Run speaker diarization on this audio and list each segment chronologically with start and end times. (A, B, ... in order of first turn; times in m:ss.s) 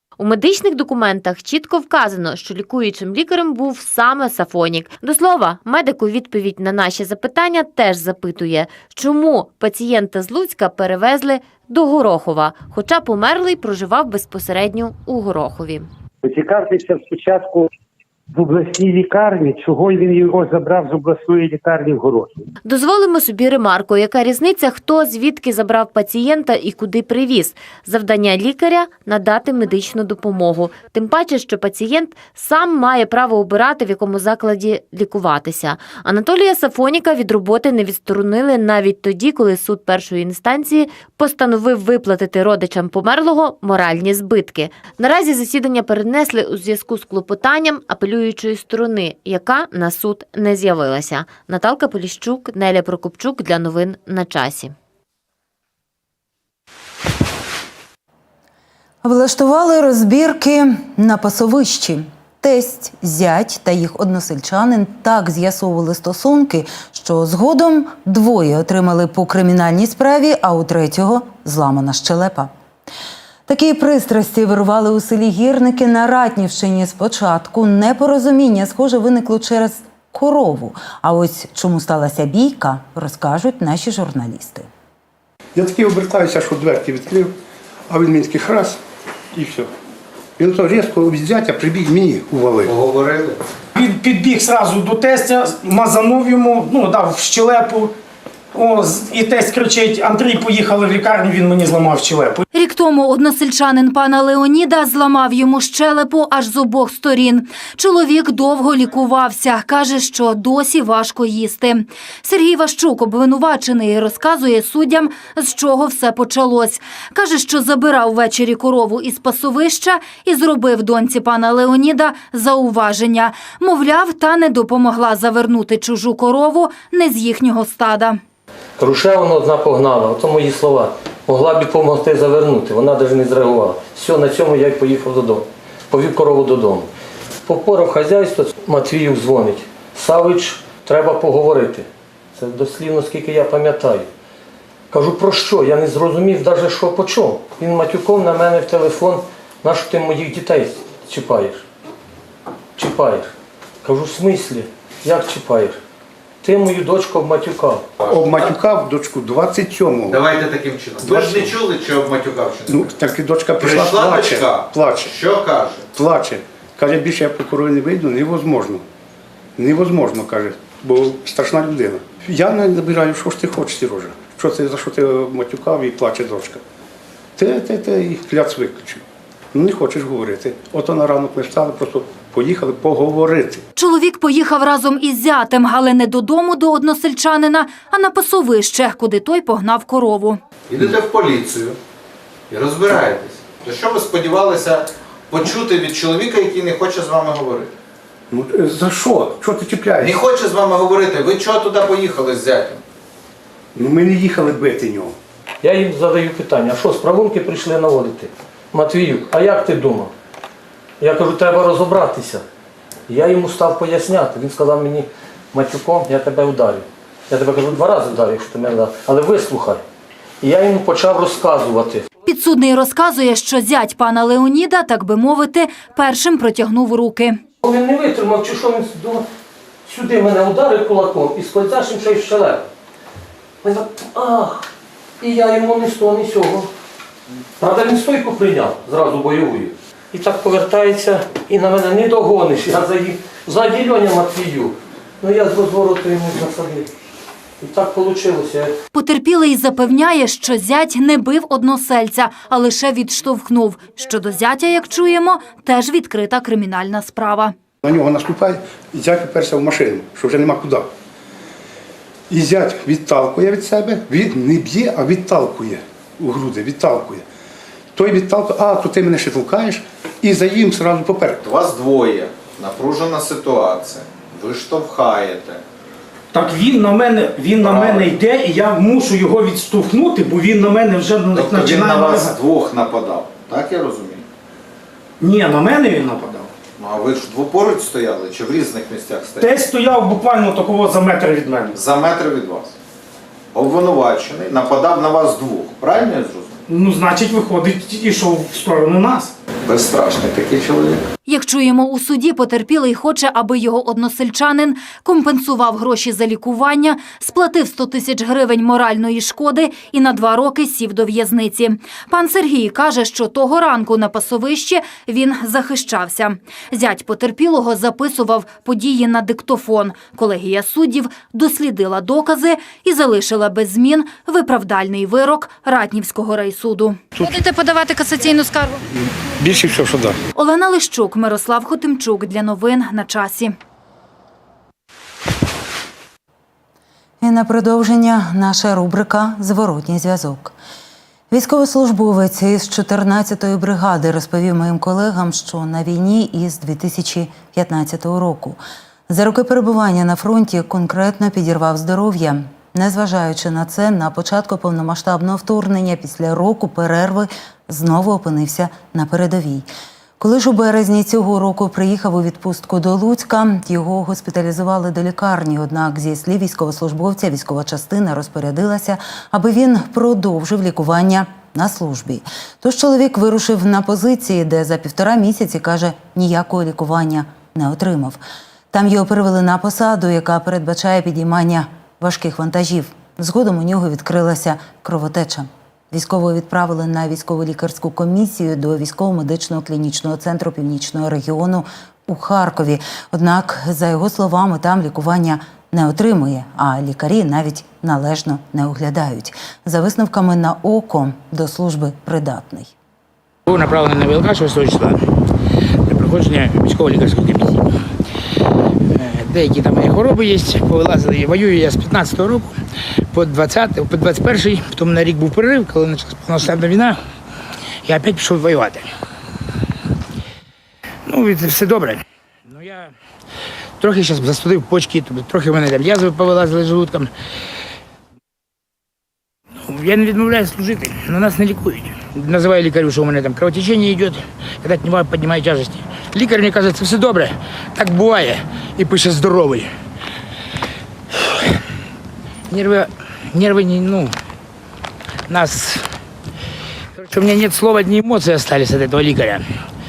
0:00.2-0:15.9 A
0:16.2-0:17.7 B
0:18.3-0:22.5 B
0:22.6-0:54.7 A
0:59.0-1:12.5 C
1:13.5-1:24.7 C
1:25.5-1:27.3 D
1:27.9-1:28.8 D
1:29.3-1:29.7 D
1:30.4-1:32.7 D
1:32.6-1:33.4 E
1:33.7-1:38.0 F
1:38.5-1:42.4 F
1:42.5-2:08.2 G
2:08.8-2:16.9 H
2:17.4-2:24.1 H
2:24.9-2:31.6 H
2:32.8-2:33.3 H
2:33.8-2:35.8 H
2:36.4-2:37.8 H
2:38.0-2:38.5 E
2:38.1-2:40.2 D
2:40.1-2:43.0 E
2:41.0-2:41.5 D
2:42.7-2:45.1 D
2:43.6-2:45.9 E
2:45.9-2:48.8 D
2:49.6-2:56.6 D
2:57.4-2:59.0 D
2:59.5-3:03.6 D
3:03.7-3:10.4 G
3:10.7-3:11.8 E
3:12.5-3:17.7 E
3:18.3-3:20.2 D
3:20.0-3:22.8 E
3:23.7-3:25.1 D
3:25.6-3:30.1 H
3:31.0-3:32.4 H
3:33.1-3:39.8 H
3:40.4-3:42.0 H
3:42.3-3:47.4 G
3:47.6-3:49.2 H
3:49.8-3:52.7 H
3:53.6-3:54.7 H
3:55.2-3:56.7 H
3:57.6-4:06.9 H
4:07.6-4:08.7 H
4:08.9-4:17.5 G
4:17.8-4:20.9 D
4:22.3-4:27.2 D
4:27.9-4:31.4 D
4:31.4-4:35.6 E
4:36.3-4:42.4 F
4:37.6-4:38.2 E
4:41.3-4:44.2 E
4:45.2-4:46.5 F
4:46.8-4:49.6 E
4:49.4-4:51.8 F
4:51.7-4:52.7 E
4:53.5-4:56.6 E
4:56.7-4:59.3 F
4:59.6-5:01.0 E
5:01.3-5:28.8 G
5:29.4-5:30.2 D
5:30.3-5:33.5 G
5:37.2-5:40.5 C
5:41.3-5:59.7 C
6:00.2-6:18.2 C
6:18.7-6:42.7 C
6:43.5-6:45.0 I
6:45.9-6:47.8 I
6:48.9-6:57.0 I
6:57.8-6:59.0 I
7:01.1-7:02.9 I
7:03.8-7:07.1 I
7:09.5-7:19.7 I
7:21.2-7:21.5 I
7:22.5-7:24.1 I
7:25.3-7:25.9 I
7:26.9-7:29.4 I